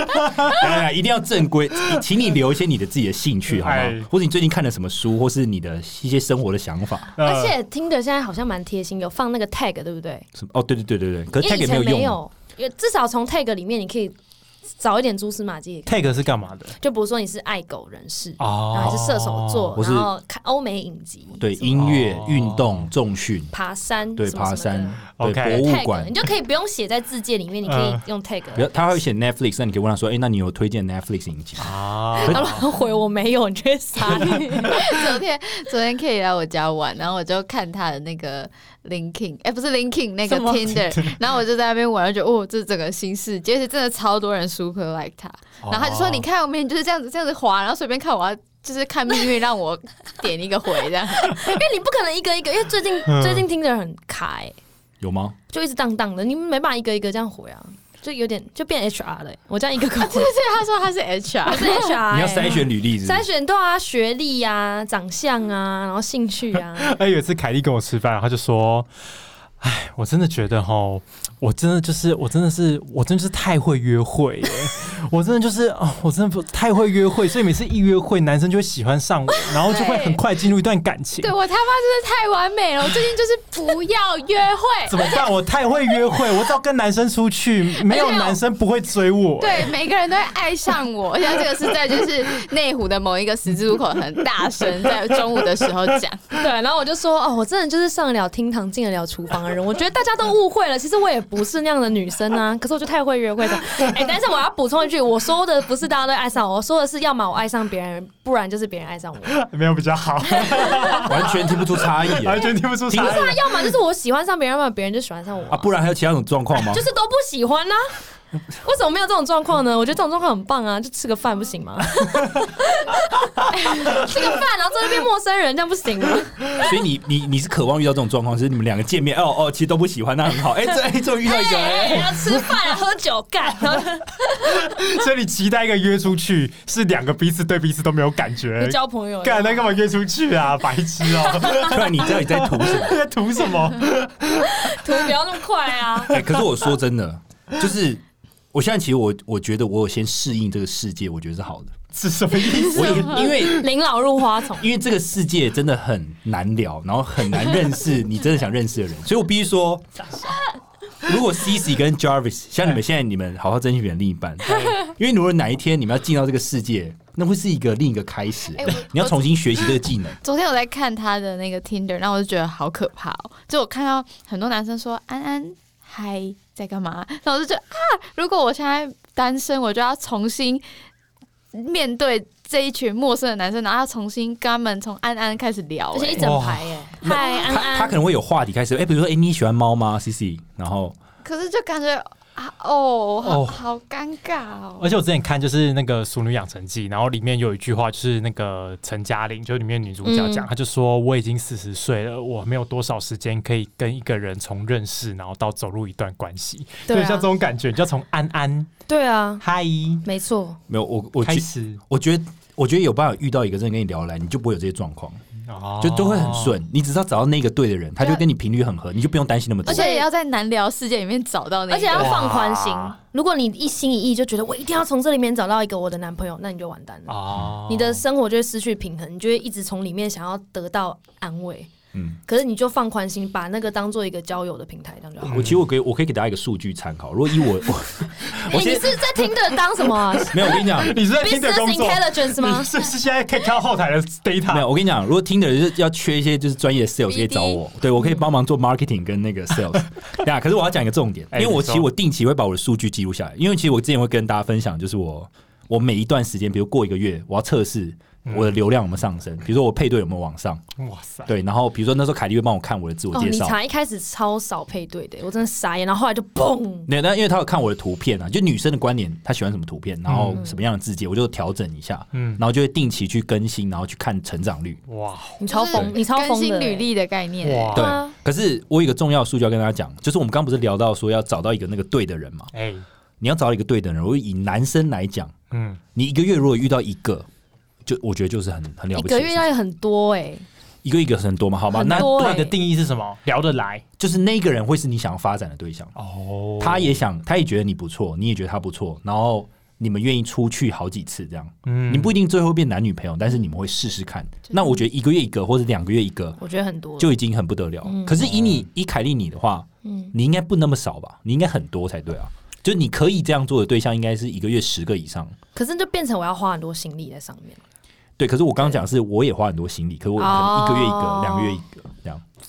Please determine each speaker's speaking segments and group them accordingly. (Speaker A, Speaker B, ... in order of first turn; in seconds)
Speaker A: 0.1-7.1, 10.3-12.2, 19.8-20.1, 21.4-23.5, 24.1-26.1, 28.5-32.6, 55.0-55.4, 62.0-63.2, 111.1-113.3, 115.5-116.8, 126.5-132.4, 141.5-143.0, 146.1-151.8, 152.7-153.7, 154.6-159.8, 161.0-170.2, 187.0-190.9, 210.7-215.2, 215.8-219.8, 231.9-232.2, 235.3-239.2, 240.3-241.0, 244.5-260.6, 261.3-263.6, 266.9-274.8, 277.7-282.5, 283.2-285.3, 285.9-287.3, 287.9-289.4, 290.8-292.4, 294.0-295.9, 296.6-306.4, 307.0-315.3, 318.2-322.2
Speaker B: 0.3-0.6, 3.6-4.1, 7.2-7.5, 15.8-16.8, 18.4-19.7, 21.8-22.9, 25.2-25.6, 27.6-28.0, 31.6-32.5, 40.3-41.0, 45.6-46.3, 53.0-53.5, 66.7-68.9, 69.6-81.3, 84.9-89.8, 109.2-113.8, 134.5-145.1, 151.9-153.5, 186.2-186.7, 193.2-193.6, 194.8-208.7, 209.4-210.0, 211.2-211.8, 215.4-216.6, 221.9-222.9, 227.1-228.0, 235.2-235.6, 240.8-244.7, 251.3-251.9, 258.2-258.6, 260.8-261.3, 270.1-270.4, 272.1-272.4, 274.9-275.4, 277.4-277.9, 282.5-282.8, 285.5-285.8, 291.9-293.8, 295.9-297.0, 301.6-302.2, 308.2-308.6
Speaker C: 7.2-10.3, 11.4-14.1, 14.8-16.2, 16.7-22.0, 23.5-28.7, 32.1-35.0, 51.2-54.5, 55.5-60.3, 61.4-67.0, 96.3-109.4, 110.4-111.6, 112.4-115.7, 116.5-126.7, 131.2-134.7, 138.6-139.8, 141.2-141.8, 144.4-146.2, 152.9-154.7, 185.9-188.0, 200.0-200.5, 206.9-207.3, 208.9-209.4, 210.0-210.6, 219.7-220.1, 221.7-231.7, 232.2-235.6, 238.4-242.7, 263.1-266.9, 270.3-270.6, 275.4-276.9, 277.7-278.1, 288.9-290.4, 291.7-292.5, 306.4-307.1, 307.8-308.2, 309.8-310.1, 315.5-317.6, 320.2-321.6
Speaker D: 34.1-51.4, 60.0-62.0, 79.3-80.2, 81.2-85.3, 87.7-88.4, 89.4-96.2, 168.5-180.6, 181.5-186.3, 191.2-194.9, 219.6-222.2, 247.1-247.6, 275.5-277.9